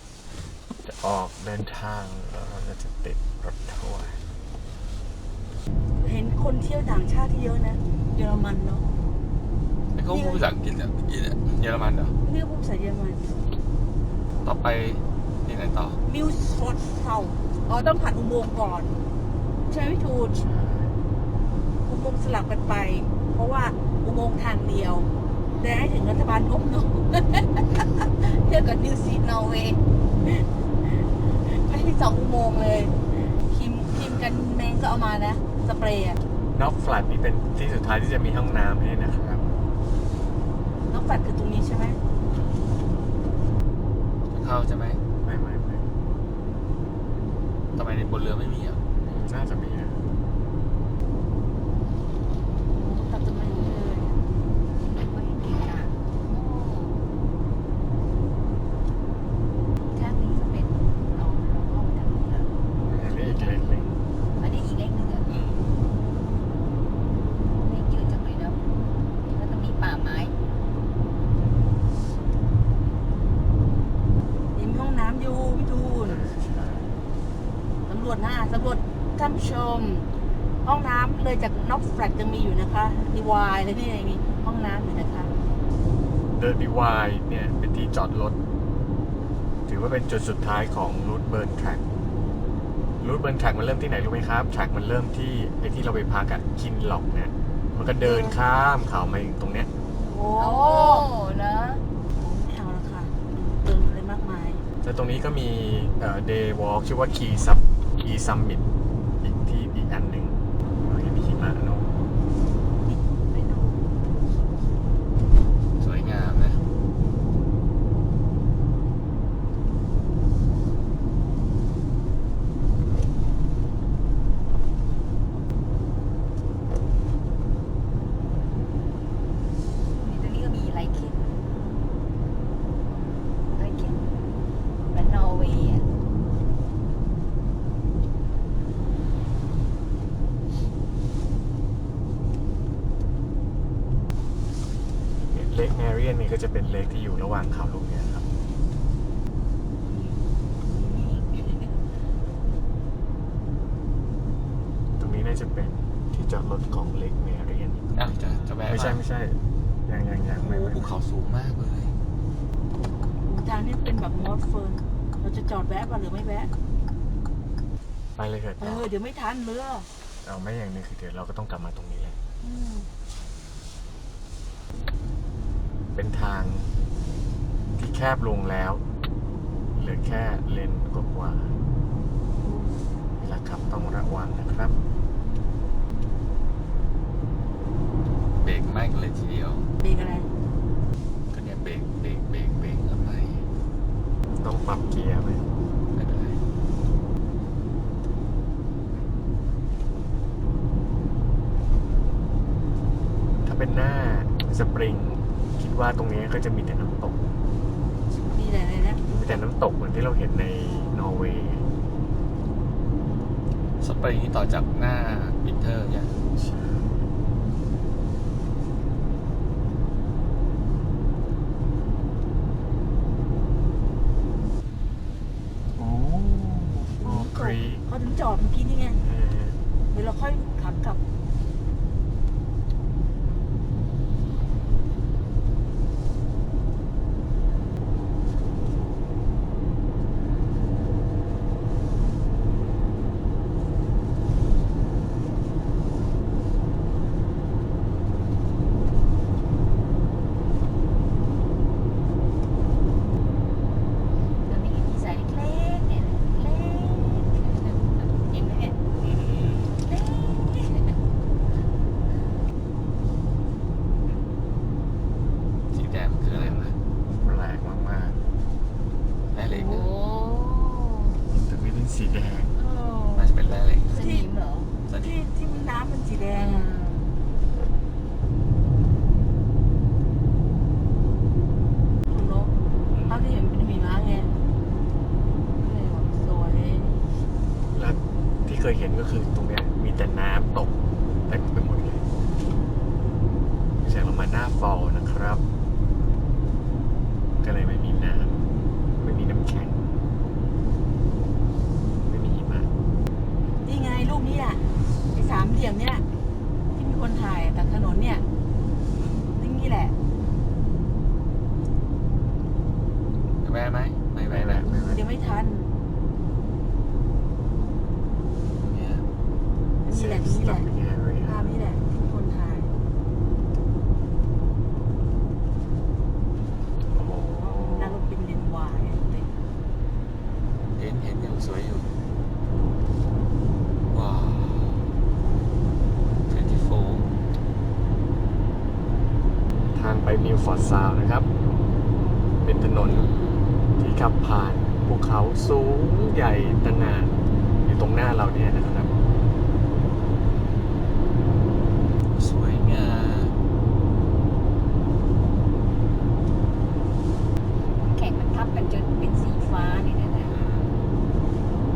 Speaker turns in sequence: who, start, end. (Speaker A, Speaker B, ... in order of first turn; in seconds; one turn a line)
Speaker A: 0.8-4.2
Speaker B: 6.0-8.9
Speaker C: 9.9-12.2
Speaker B: 10.1-10.5
Speaker B: 12.2-13.4
Speaker C: 14.4-16.0
Speaker B: 16.1-19.0
Speaker B: 19.7-20.4
Speaker A: 20.3-21.0
Speaker B: 21.8-36.2
Speaker A: 36.5-39.5
Speaker B: 40.9-42.0
Speaker C: 44.3-45.0
Speaker A: 45.2-45.9
Speaker C: 47.8-48.8
Speaker A: 49.0-50.0
Speaker B: 52.7-54.2
Speaker D: 54.7-57.1
Speaker D: 59.9-63.8
Speaker A: 62.7-64.0
Speaker D: 64.4-65.4
Speaker A: 65.2-65.7
Speaker D: 67.5-68.6
Speaker D: 69.2-70.4
Speaker B: 74.5-76.2
Speaker A: 76.0-77.0
Speaker B: 77.9-80.1
Speaker B: 80.6-85.3
Speaker A: 86.4-88.4
Speaker A: 89.7-91.8
Speaker A: 93.0-99.7
Speaker B: 98.0-98.4
Speaker B: 100.0-101.1
Speaker D: 100.3-101.8
Speaker B: 102.2-104.6
Speaker A: 104.8-108.6
Speaker A: 109.2-111.9
Speaker B: 112.9-113.9
Speaker C: 115.8-116.6
Speaker D: 129.9-131.3
Speaker D: 133.5-134.1
Speaker D: 134.9-135.9
Speaker A: 145.2-148.2
Speaker D: 149.8-152.1
Speaker A: 155.0-157.9
Speaker C: 157.9-159.1
Speaker D: 158.2-158.7
Speaker A: 158.7-161.0
Speaker C: 160.3-162.0
Speaker B: 163.2-166.5
Speaker A: 168.2-168.9
Speaker B: 168.6-169.9
Speaker A: 170.2-172.2
Speaker B: 172.4-172.9
Speaker A: 175.9-176.7
Speaker A: 177.8-178.8
Speaker A: 179.7-181.6
Speaker B: 182.4-182.8
Speaker A: 183.2-184.8
Speaker C: 188.4-189.7
Speaker B: 189.8-190.3
Speaker C: 191.3-193.5
Speaker A: 194.4-195.5
Speaker C: 195.9-196.4
Speaker A: 203.4-207.3
Speaker B: 208.3-209.0
Speaker A: 209.1-211.7
Speaker C: 213.8-216.2
Speaker A: 216.3-217.1
Speaker A: 225.8-227.8
Speaker B: 227.0-229.0
Speaker A: 228.9-229.6
Speaker B: 229.9-231.0
Speaker D: 254.3-258.8
Speaker A: 259.0-259.8
Speaker D: 259.8-261.0
Speaker C: 265.7-266.8
Speaker A: 266.3-268.2
Speaker C: 269.3-269.9
Speaker D: 269.5-271.2
Speaker A: 271.3-272.6
Speaker C: 273.1-274.0
Speaker D: 273.9-274.8
Speaker B: 273.9-274.3
Speaker C: 274.9-275.2
Speaker B: 274.9-277.1
Speaker B: 282.1-282.5
Speaker A: 282.9-283.3
Speaker B: 283.1-284.3
Speaker B: 285.6-287.1
Speaker A: 287.7-292.1
Speaker A: 293.8-295.4
Speaker A: 297.4-298.4
Speaker A: 299.0-299.9
Speaker A: 302.1-302.7
Speaker B: 303.6-306.1
Speaker B: 306.7-308.2
Speaker A: 308.9-309.3
Speaker B: 309.4-309.9
Speaker C: 313.4-314.7
Speaker A: 314.3-315.0
Speaker B: 314.7-315.7
Speaker C: 318.5-319.1
Speaker B: 319.8-320.7
Speaker A: 319.9-321.5
Speaker B: 321.2-322.7
Speaker A: 326.9-328.0
Speaker B: 327.4-329.3
Speaker C: 330.8-331.9
Speaker C: 333.9-334.9
Speaker C: 336.3-337.1
Speaker A: 339.7-341.3
Speaker A: 342.4-343.1
Speaker C: 342.8-343.4
Speaker A: 343.8-349.0
Speaker C: 352.1-353.4
Speaker D: 357.9-360.4
Speaker C: 360.2-360.9